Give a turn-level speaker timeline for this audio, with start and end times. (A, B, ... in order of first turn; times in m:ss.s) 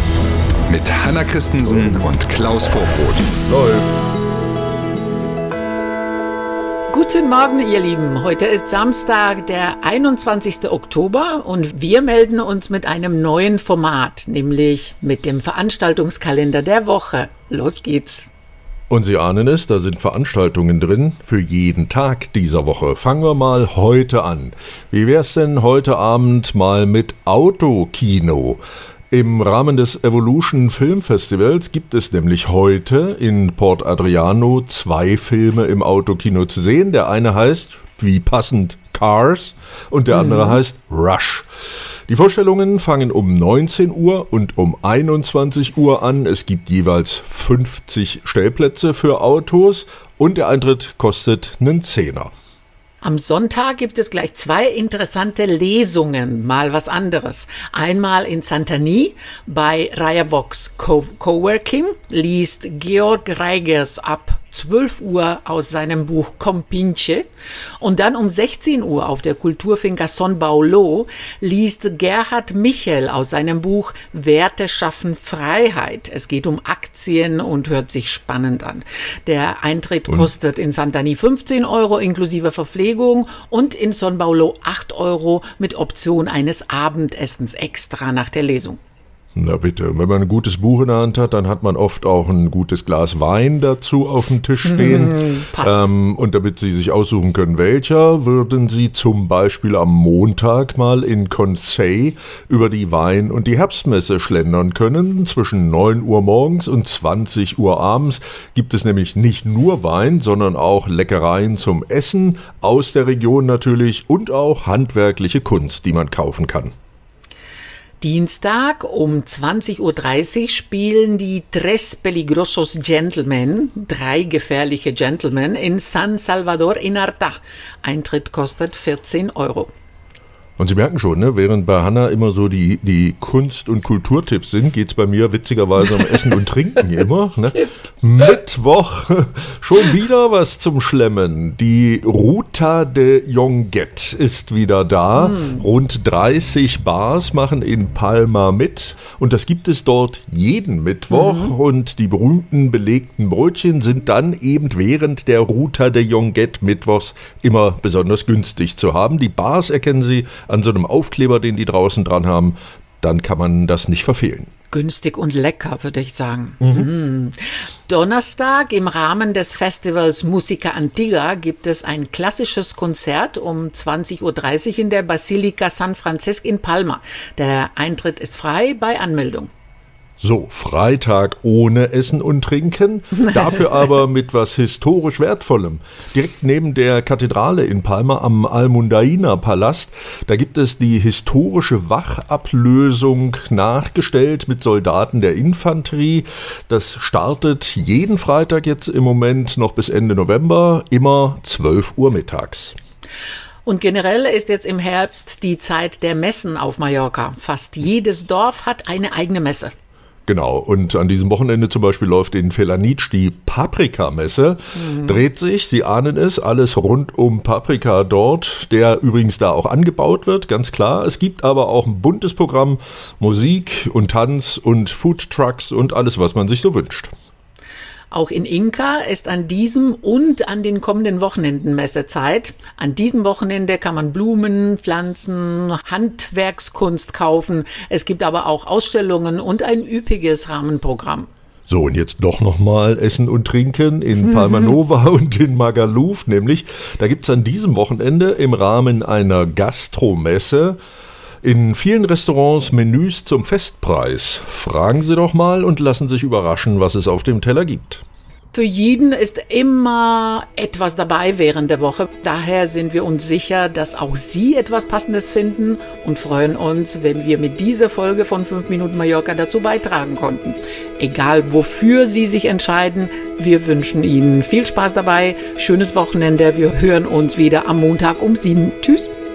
0:00.7-0:03.4 A
0:03.5-0:03.8 B
0:06.9-0:18.2 C
0:18.9-0:28.6 B
0:29.1-0:41.4 B
0:40.1-0:40.6 C
0:42.1-0:52.3 B
0:53.0-1:07.3 C
1:07.8-1:28.8 C
1:29.3-1:56.7 B
1:34.7-1:35.9 C
1:58.0-2:09.7 C
2:10.6-2:44.5 B
2:31.1-2:31.5 C
2:44.7-2:59.5 C
2:46.6-2:46.9 B
3:00.2-3:22.7 B
3:23.6-3:29.7 C
3:30.3-3:47.1 B
3:48.1-4:01.3 C
4:01.7-4:10.8 B
4:11.4-4:18.0 B
4:18.5-4:39.1 C